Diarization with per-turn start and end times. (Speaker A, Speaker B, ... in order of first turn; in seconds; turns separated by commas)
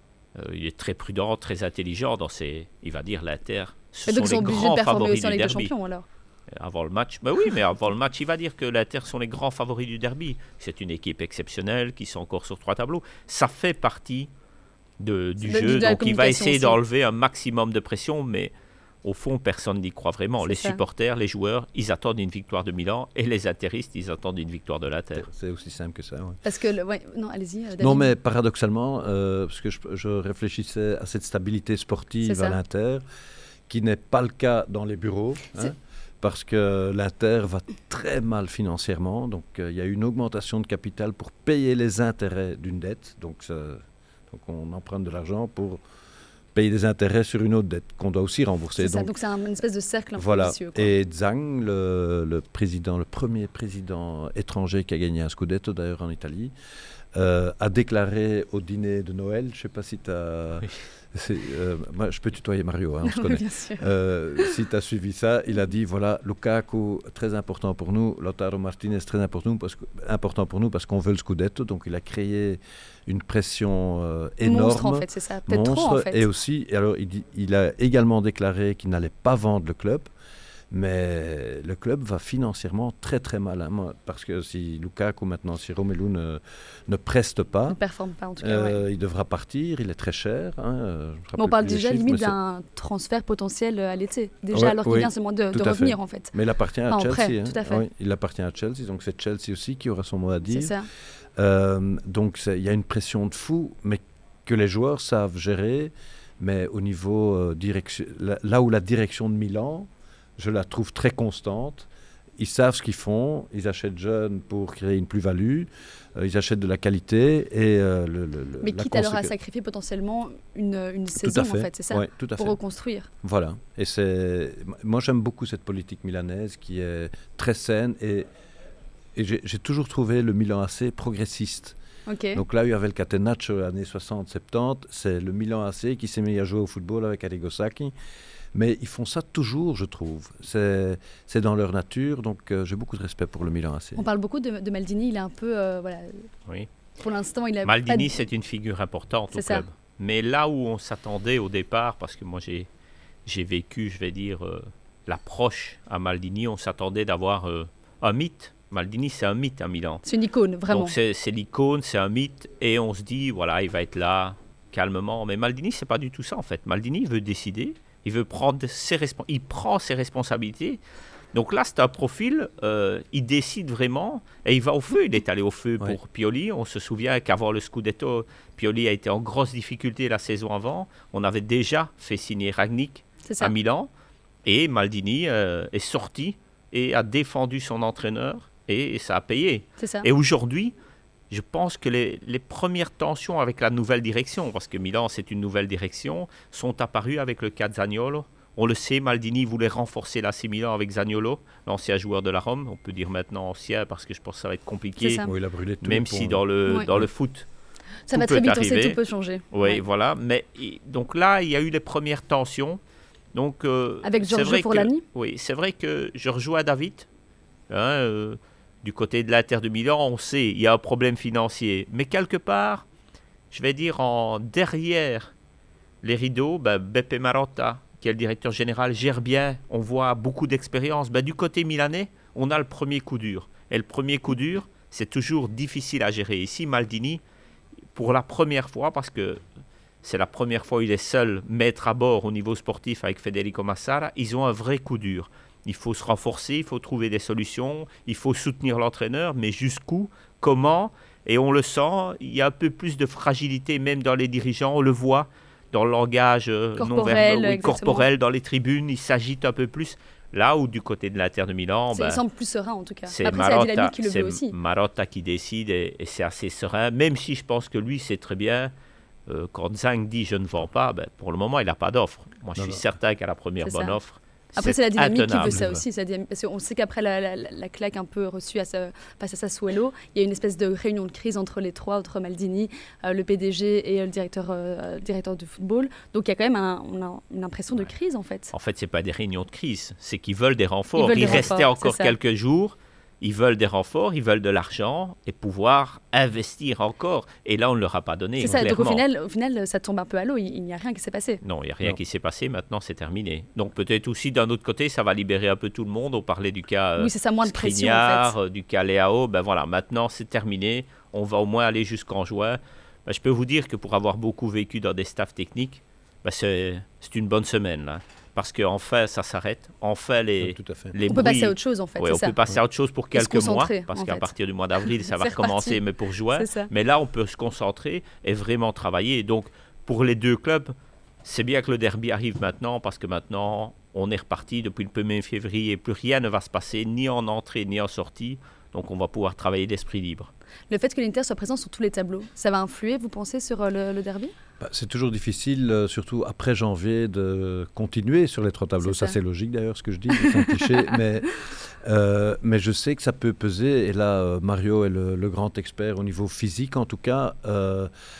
Speaker A: 0.3-5.7, Speaker B: 4.1-6.0, Speaker A: 6.5-14.3, Speaker A: 15.0-18.5, Speaker B: 15.4-16.8, Speaker A: 19.0-25.2, Speaker B: 20.4-20.8, Speaker C: 25.2-26.4, Speaker B: 26.4-28.1, Speaker C: 27.8-33.0, Speaker B: 32.2-32.6, Speaker C: 33.7-45.8, Speaker C: 46.5-49.1, Speaker B: 48.8-50.9, Speaker C: 50.2-56.5, Speaker C: 57.1-80.1, Speaker B: 63.0-64.5, Speaker B: 74.4-76.3, Speaker C: 80.7-87.8, Speaker B: 87.7-88.8, Speaker C: 88.4-92.3, Speaker B: 91.4-96.3, Speaker C: 94.5-100.8, Speaker B: 96.9-97.8, Speaker B: 100.5-100.9, Speaker C: 101.4-119.3, Speaker B: 118.6-123.1, Speaker C: 121.2-122.6, Speaker C: 123.2-128.2, Speaker C: 129.1-131.8, Speaker B: 132.1-132.4, Speaker C: 132.3-137.9, Speaker C: 138.5-144.0, Speaker B: 143.9-146.3, Speaker B: 147.0-148.2, Speaker A: 147.7-152.7, Speaker B: 149.3-149.6, Speaker A: 153.2-160.0, Speaker B: 160.0-160.9, Speaker A: 160.7-170.8, Speaker A: 171.3-183.9, Speaker B: 183.3-183.5, Speaker A: 184.4-190.7, Speaker B: 189.8-190.1, Speaker A: 191.3-205.3, Speaker B: 205.0-205.3, Speaker C: 205.2-207.1, Speaker A: 205.8-207.5, Speaker B: 208.1-209.8, Speaker A: 208.1-209.0, Speaker A: 209.5-212.8, Speaker A: 213.3-217.1, Speaker B: 214.0-215.0, Speaker A: 217.7-222.8, Speaker A: 223.5-225.3, Speaker A: 226.0-237.2, Speaker A: 237.9-239.4, Speaker A: 240.0-262.2, Speaker B: 256.8-258.1, Speaker B: 261.9-264.5, Speaker A: 263.1-268.7, Speaker A: 269.3-275.6, Speaker C: 272.6-272.8, Speaker B: 273.6-274.0, Speaker B: 274.6-288.5, Speaker C: 275.4-275.8, Speaker A: 288.5-299.0, Speaker B: 291.0-292.1, Speaker B: 298.4-301.4, Speaker A: 301.4-330.7, Speaker B: 307.0-308.3, Speaker C: 320.4-321.0, Speaker B: 321.1-322.4, Speaker B: 323.1-324.3, Speaker B: 324.8-325.8, Speaker B: 326.3-326.7, Speaker A: 331.2-340.3, Speaker B: 340.7-344.3, Speaker C: 344.6-357.9, Speaker B: 348.8-349.1, Speaker B: 350.1-351.0